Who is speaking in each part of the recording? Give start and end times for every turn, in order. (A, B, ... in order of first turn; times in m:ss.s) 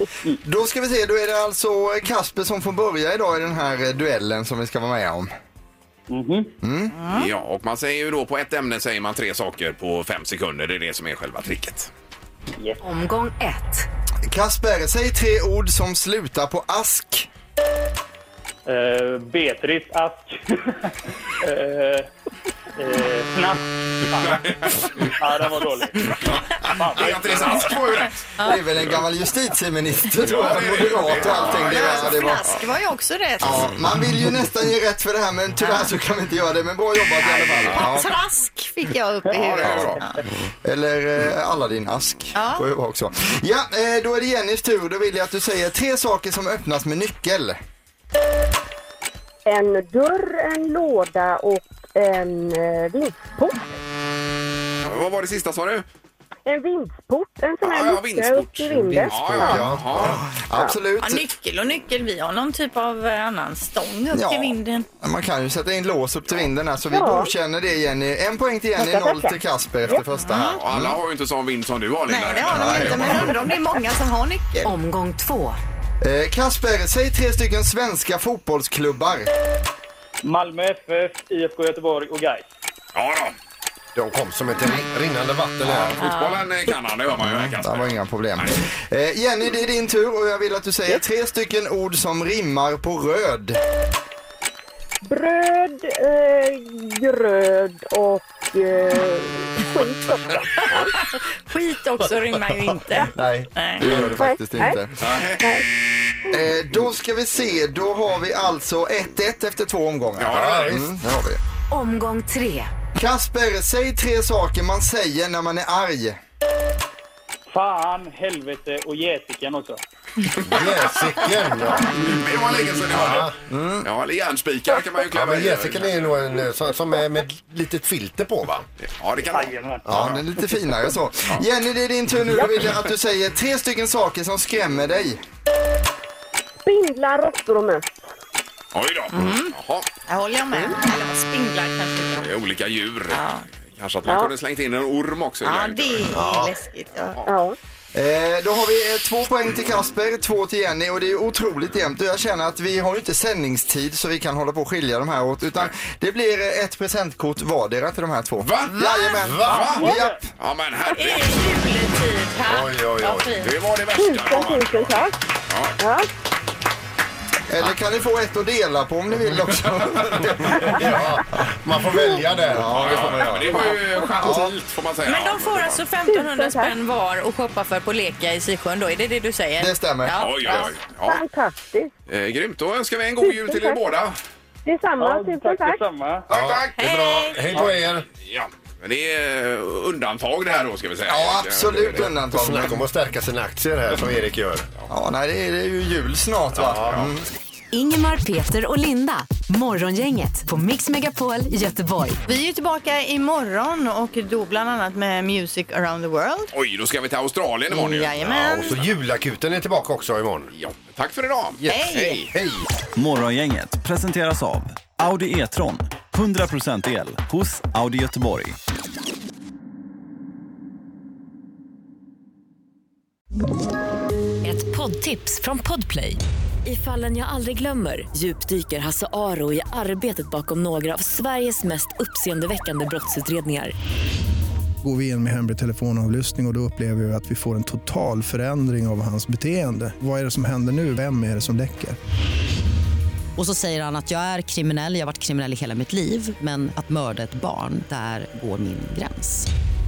0:00.4-0:05.3 A
0:06.1-0:06.5 B
0:06.6-0:06.9 A
0:06.9-0:07.3 C
0:07.1-0:11.9 D
0:12.8-0:13.9 E
0:14.3-0:17.3 A
0:18.6-0:22.1 B
0:22.8-0:24.5 B
0:24.2-0:24.9 D
0:25.0-0:26.1 B
0:26.4-0:28.2 D
0:26.8-0:27.8 B
0:28.4-0:28.6 C
0:28.4-0:32.5 A
0:30.2-0:32.5 D
0:31.2-0:33.7 C
0:33.4-0:38.1 A
0:35.6-0:35.9 C
0:37.2-0:40.2 C
0:39.3-0:40.0 D
0:40.6-0:47.6 A
0:42.3-0:42.6 C
0:49.4-0:53.6 F
0:54.8-0:55.8 D
0:56.4-0:59.6 F
0:57.6-1:00.2 D
0:59.1-1:00.2 G
0:59.4-1:01.2 A
1:01.0-1:04.9 C
1:04.1-1:11.0 A
1:06.9-1:07.3 F
1:08.8-1:09.4 F
1:09.8-1:13.4 D
1:10.2-1:10.6 C
1:12.1-1:14.7 C
1:12.5-1:13.3 A
1:14.6-1:15.6 E
1:16.0-1:19.3 A
1:20.2-1:22.4 B
1:22.9-1:23.3 D
1:23.9-1:26.0 G
1:25.9-1:28.6 D
1:26.0-1:26.4 C
1:27.2-1:33.6 A
1:35.0-1:40.9 F
1:40.7-1:43.9 C
1:43.1-1:44.9 A
1:44.1-1:44.8 F
1:45.0-1:45.4 D
1:45.4-1:45.6 F
1:46.3-1:51.4 A
1:50.2-1:50.8 D
1:50.2-1:50.9 G
1:51.7-1:52.7 E
1:53.0-1:56.2 A
1:57.5-1:59.8 B
2:00.4-2:01.2 D
2:00.5-2:01.9 G
2:01.9-2:03.3 D
2:02.8-2:03.3 G
2:03.5-2:03.8 A
2:03.8-2:06.0 D
2:05.1-2:08.6 G
2:08.8-2:10.2 D
2:09.2-2:09.8 B
2:09.8-2:10.2 G
2:09.9-2:15.2 A
2:16.6-2:17.9 F
2:18.7-2:19.9 D
2:19.1-2:19.5 C
2:20.0-2:22.3 C
2:22.2-2:26.2 D
2:23.1-2:23.4 C
2:24.0-2:24.3 F
2:25.4-2:27.2 C
2:26.1-2:26.5 G
2:27.2-2:27.6 F
2:27.9-2:40.2 A
2:38.4-2:38.7 D
2:38.7-2:39.2 C
2:39.2-2:39.7 G
2:39.4-2:41.5 D
2:40.9-2:43.5 C
2:42.5-2:43.4 G
2:43.4-2:45.7 D
2:44.0-2:45.2 F
2:45.8-2:46.1 F
2:47.5-2:51.4 A
2:50.7-2:53.2 G
2:52.4-2:54.6 A
2:52.7-2:55.8 D
2:55.0-3:00.7 C
2:56.1-2:56.7 F
2:59.6-3:00.2 A
3:00.2-3:01.2 D
3:01.0-3:01.9 F
3:02.1-3:04.2 D
3:03.2-3:03.9 F
3:04.6-3:05.8 F
3:05.0-3:06.2 B
3:06.3-3:06.7 D
3:06.3-3:08.0 G
3:06.8-3:07.4 C
3:08.2-3:12.1 D
3:11.1-3:12.8 A
3:12.1-3:14.7 G
3:14.9-3:17.2 A
3:16.5-3:17.1 G
3:17.7-3:22.2 E
3:22.3-3:26.5 C
3:26.5-3:28.9 D
3:27.7-3:28.7 C
3:28.2-3:30.5 G
3:30.5-3:32.3 D
3:31.7-3:32.2 C
3:32.3-3:32.6 G
3:33.0-3:38.6 H
3:44.4-3:53.7 E
3:54.8-4:02.0 I
4:03.4-4:09.5 J